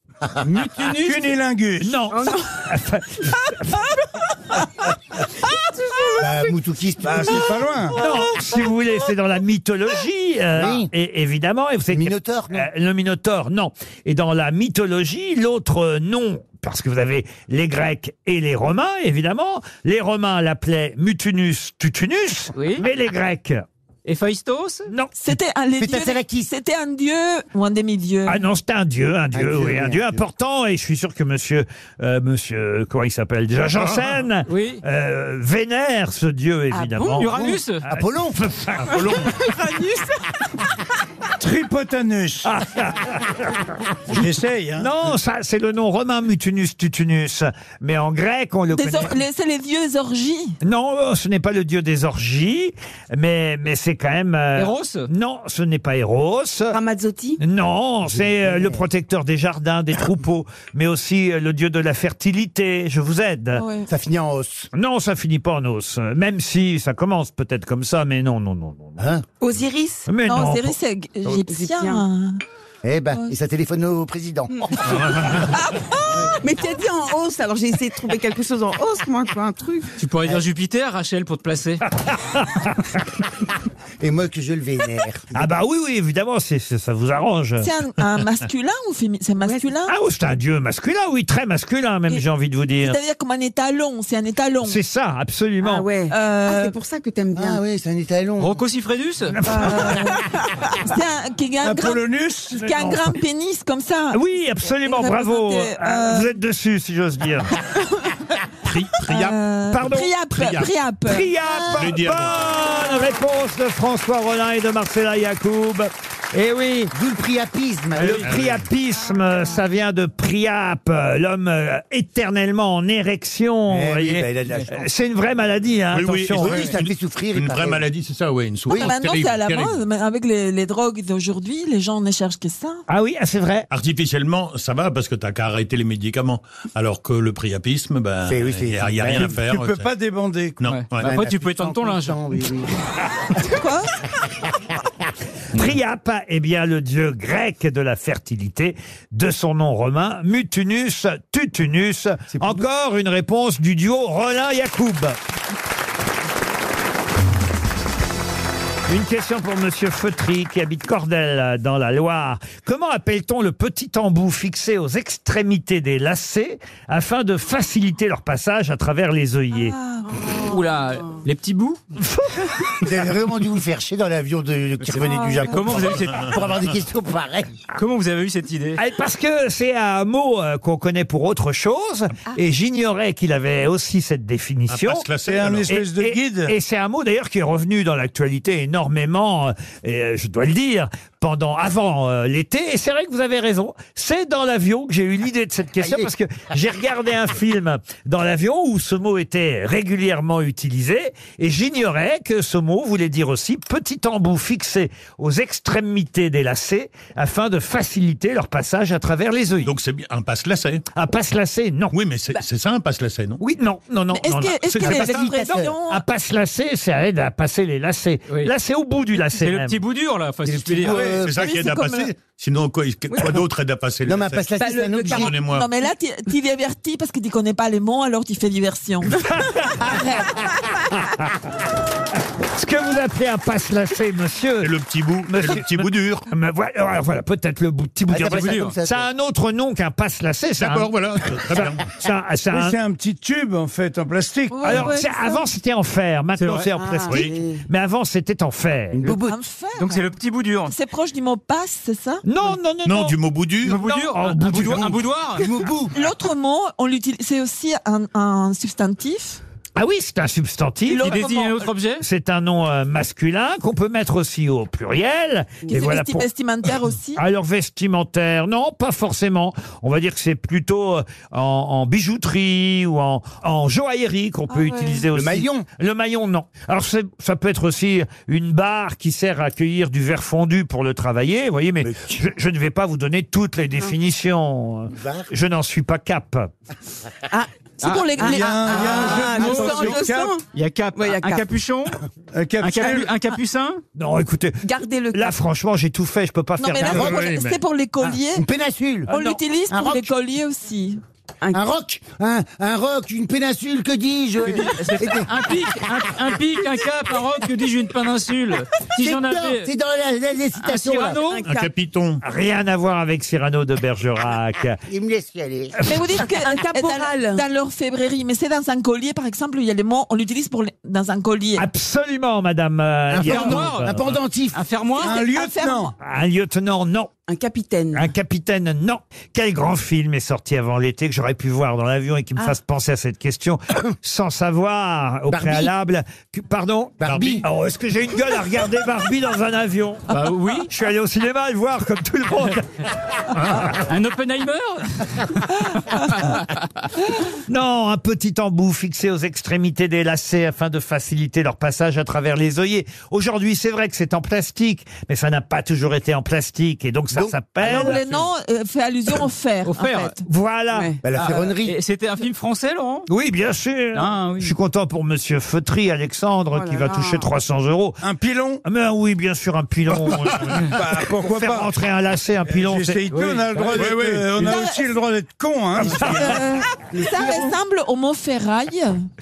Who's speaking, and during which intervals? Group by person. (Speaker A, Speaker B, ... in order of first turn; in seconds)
Speaker A: 0.4-1.3, 22.5-22.8, 24.0-24.9, 34.5-34.8, 37.1-37.9, 54.5-55.1, 80.0-81.8, 98.4-99.4, 140.7-142.4, 170.4-171.8, 174.8-176.4, 177.7-178.8, 219.3-221.1, 238.3-238.7, 246.4-246.7, 249.8-250.7, 253.6-255.5, 261.0-262.0, 287.8-288.2, 289.1-289.7, 290.5-292.0, 292.6-293.8, 304.4-309.7, 310.6-311.5, 323.2-325.1, 340.1-340.7, 343.9-346.6, 359.6-360.1, 361.1-363.1, 363.9-364.5, 373.1-373.9
Speaker B: 0.9-2.0, 7.0-8.0, 41.4-42.5, 44.1-44.9, 101.6-102.9, 139.0-140.7, 185.2-186.5, 242.5-244.8, 288.2-290.4, 292.3-293.2, 325.0-325.9, 368.0-368.6, 370.7-371.7, 372.5-376.5
Speaker C: 1.8-3.9, 8.0-23.6, 24.9-25.1, 28.2-37.4, 37.9-39.1, 42.4-44.2, 44.8-49.2, 50.6-56.8, 57.4-63.6, 64.7-69.0, 70.1-70.8, 82.0-82.8, 85.3-87.7, 89.9-93.0, 94.6-95.9, 99.3-99.9, 104.1-107.5, 109.7-110.1, 111.0-116.9, 117.9-126.7, 132.9-133.7, 145.5-155.2, 158.9-169.8, 172.0-172.5, 178.8-185.1, 185.7-209.7, 210.9-211.9, 213.4-219.8, 229.1-230.0, 232.5-234.7, 235.2-242.8, 244.6-249.1, 252.2-254.9, 259.8-261.2, 262.0-266.3, 267.1-286.5, 293.9-297.1, 299.1-299.4, 312.2-314.8, 321.6-324.1, 326.0-327.1, 327.9-342.9, 347.5-358.0, 360.2-360.9, 363.1-368.0, 368.6-373.0
Speaker D: 2.1-2.6, 36.7-37.4, 38.9-40.6, 56.7-57.4, 69.4-70.1, 71.5-72.0, 74.5-74.8, 76.2-79.9, 95.6-97.6, 224.6-225.3, 246.8-247.6, 288.2-290.4, 290.9-291.5, 294.6-295.4, 311.3-311.7, 316.3-317.4, 327.3-328.1, 360.7-361.0, 366.5-367.3
Speaker E: 6.2-7.6, 10.5-10.9, 11.9-12.7, 25.8-26.5, 29.3-30.2, 37.4-38.4, 58.1-58.8, 63.9-64.7, 69.0-69.2, 72.8-74.7, 84.0-85.4, 97.3-98.6, 116.9-118.3, 123.7-124.9, 126.3-127.8, 138.3-139.4, 141.0-142.7, 172.8-177.5, 195.8-196.1, 214.9-215.7, 220.4-221.6, 224.0-225.3, 238.1-239.1, 248.9-249.4, 255.3-255.9, 275.1-275.7, 281.8-282.2, 284.9-285.3, 296.9-297.2, 298.3-299.1, 299.7-300.1, 301.5-306.0, 309.0-311.2, 314.9-315.8, 323.1-324.6, 335.3-335.7, 337.0-337.4, 357.1-358.0, 361.0-361.8
Speaker F: 25.1-28.4, 48.7-50.5, 63.5-63.9, 70.2-72.4, 87.6-89.9, 92.8-94.8, 96.1-96.7, 99.4-102.0, 102.5-106.3, 108.9-111.3, 128.7-132.8, 143.4-143.9, 169.5-170.2, 174.9-175.6, 214.1-216.0, 221.3-222.1, 224.7-230.5, 244.5-245.4, 249.1-250.0, 250.7-252.2, 255.9-259.4, 260.9-261.7, 265.7-267.2, 274.5-275.1, 287.8-289.4, 296.6-298.5, 299.1-301.0, 315.8-321.6, 325.0-325.9, 357.6-360.2, 374.4-374.9, 375.9-379.1
Speaker G: 33.8-34.2, 38.8-39.4, 74.9-75.4, 108.7-109.4, 110.3-110.7, 111.7-112.5, 118.2-118.7, 125.9-129.8, 133.7-139.9, 140.6-141.2, 184.7-185.7, 209.6-210.8, 211.9-213.4, 214.9-215.1, 220.9-225.7, 234.6-236.2, 240.6-241.9, 247.1-247.4, 252.8-253.8, 296.9-297.6, 311.4-312.2, 337.1-337.4, 373.7-374.4